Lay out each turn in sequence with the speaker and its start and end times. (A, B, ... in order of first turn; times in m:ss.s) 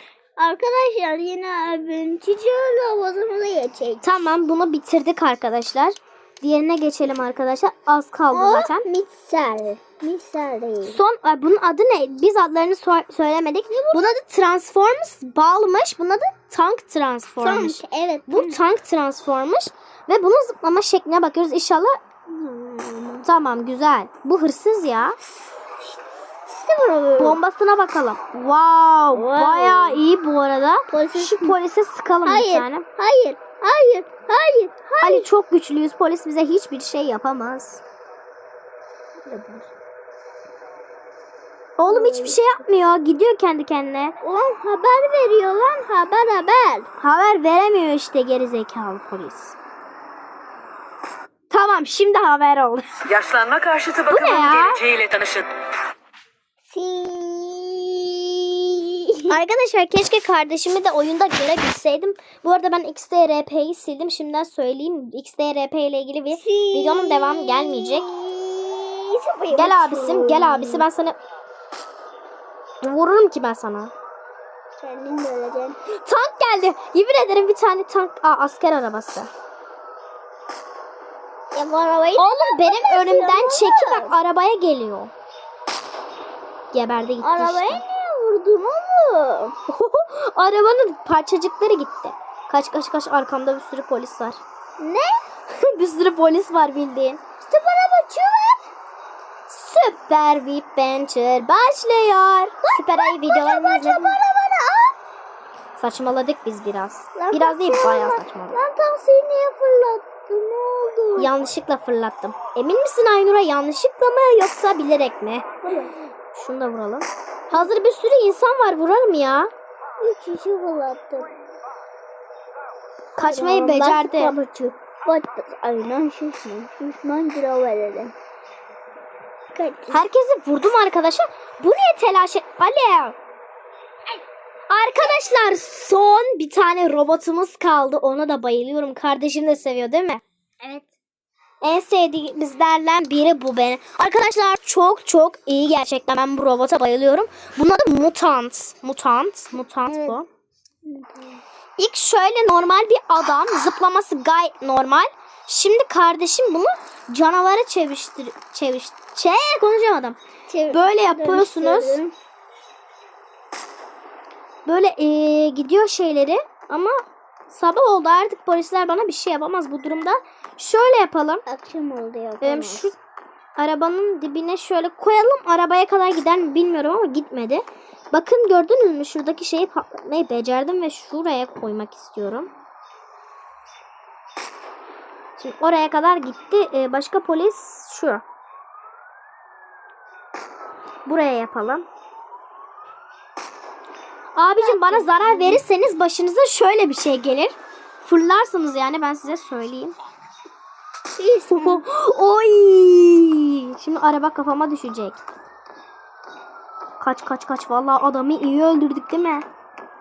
0:00.4-0:04.3 A
0:04.0-0:08.9 B
0:08.3-0:11.0 A
0:10.8-0:22.0 B
0:13.7-0:14.2 A
0:17.4-0:18.6 A
0:22.3-0:23.3 A
0:23.2-0:25.2 B
0:26.5-0:27.4 A
0:27.2-0:32.9 B
0:29.1-0:30.0 A
0:30.9-0:31.6 A
0:32.3-0:35.3 A
0:35.0-0:37.8 B
0:39.2-0:39.7 A
0:41.8-0:44.2 B
0:41.9-0:42.4 A
0:44.2-0:46.9 A
0:47.0-0:49.6 B
0:51.5-0:52.9 B
0:53.1-0:55.5 C
0:54.1-0:54.9 B
0:56.7-0:59.4 A
0:59.3-1:08.1 B
1:06.3-1:10.9 A
1:09.5-1:11.2 B
1:12.8-1:13.9 B
1:14.8-1:15.8 A
1:15.9-1:19.3 B
1:21.5-1:24.2 A
1:22.2-1:25.1 B
1:26.7-1:27.8 B
1:27.2-1:29.6 A
1:29.7-1:34.4 B
1:34.8-1:35.2 A
1:35.5-1:37.2 B
1:37.4-1:38.6 A
1:39.5-1:44.2 B
1:42.6-1:45.0 A
1:45.8-1:48.6 B
1:47.2-1:51.3 A
1:51.2-1:55.4 B
1:55.6-1:55.9 A
1:56.4-1:59.5 B
2:00.0-2:01.3 A
2:03.2-2:04.3 B
2:03.2-2:08.1 A
2:09.6-2:10.0 A
2:09.9-2:13.2 B
2:14.7-2:20.2 B
2:20.6-2:20.9 A
2:21.6-2:30.3 B
2:29.9-2:30.2 A
2:30.8-2:31.4 A
2:31.8-2:40.2 B
2:40.5-2:42.1 A
2:40.7-2:42.0 B
2:44.7-2:47.0 B
2:47.5-2:51.4 B
2:51.5-2:52.9 A
2:52.4-2:53.0 B
2:53.6-3:02.5 B
3:05.4-3:08.2 B
3:11.1-3:11.9 B
3:14.4-3:20.0 B
3:14.6-3:15.6 A
3:21.2-3:21.8 A
3:21.5-3:25.2 B
3:27.0-3:29.5 B